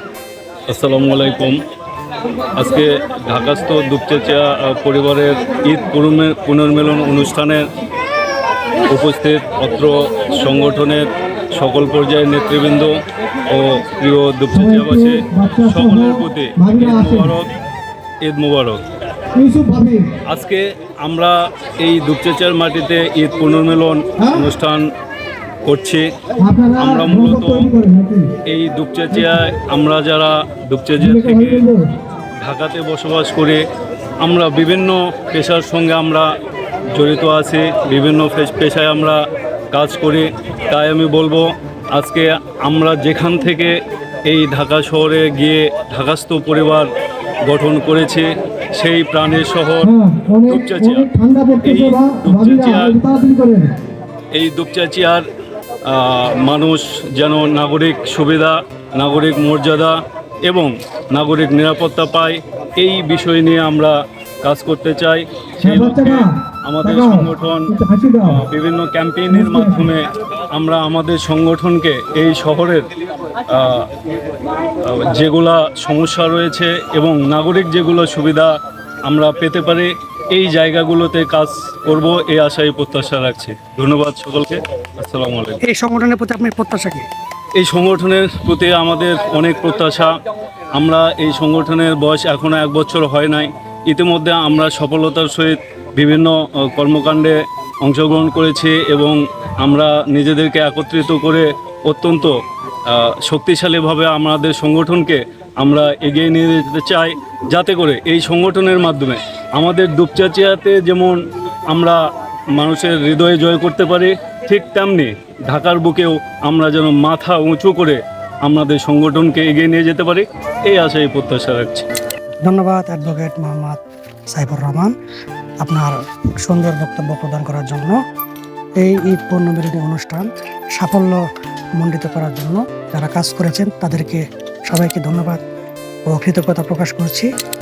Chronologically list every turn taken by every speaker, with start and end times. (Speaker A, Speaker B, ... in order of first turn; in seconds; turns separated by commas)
Speaker A: 0.7-1.6, Speaker A: 2.5-7.6, Speaker A: 8.9-12.9, Speaker A: 13.5-17.5, Speaker B: 14.5-17.3, Speaker A: 18.2-18.8, Speaker B: 19.4-20.1, Speaker A: 20.2-24.9, Speaker A: 25.6-26.1, Speaker B: 26.4-28.2, Speaker A: 26.8-27.7, Speaker A: 28.5-31.6, Speaker B: 31.0-31.8, Speaker A: 32.4-33.6, Speaker A: 34.2-36.3, Speaker A: 36.9-39.2, Speaker A: 39.7-46.9, Speaker A: 47.4-51.1, Speaker B: 49.8-53.7, Speaker A: 51.6-52.9, Speaker A: 54.3-55.2, Speaker A: 55.9-67.7, Speaker B: 65.6-66.3, Speaker B: 66.8-68.4, Speaker A: 68.2-72.8, Speaker B: 69.3-69.9, Speaker A: 73.4-73.9, Speaker A: 74.8-78.5, Speaker A: 79.1-85.6, Speaker B: 85.7-87.0, Speaker A: 87.6-90.1, Speaker A: 90.8-102.3, Speaker A: 102.8-112.0, Speaker A: 112.5-121.9, Speaker B: 122.4-123.8, Speaker B: 124.3-124.9, Speaker B: 125.6-125.9, Speaker B: 126.4-128.0, Speaker B: 128.8-131.2, Speaker B: 131.8-135.4, Speaker B: 136.1-137.3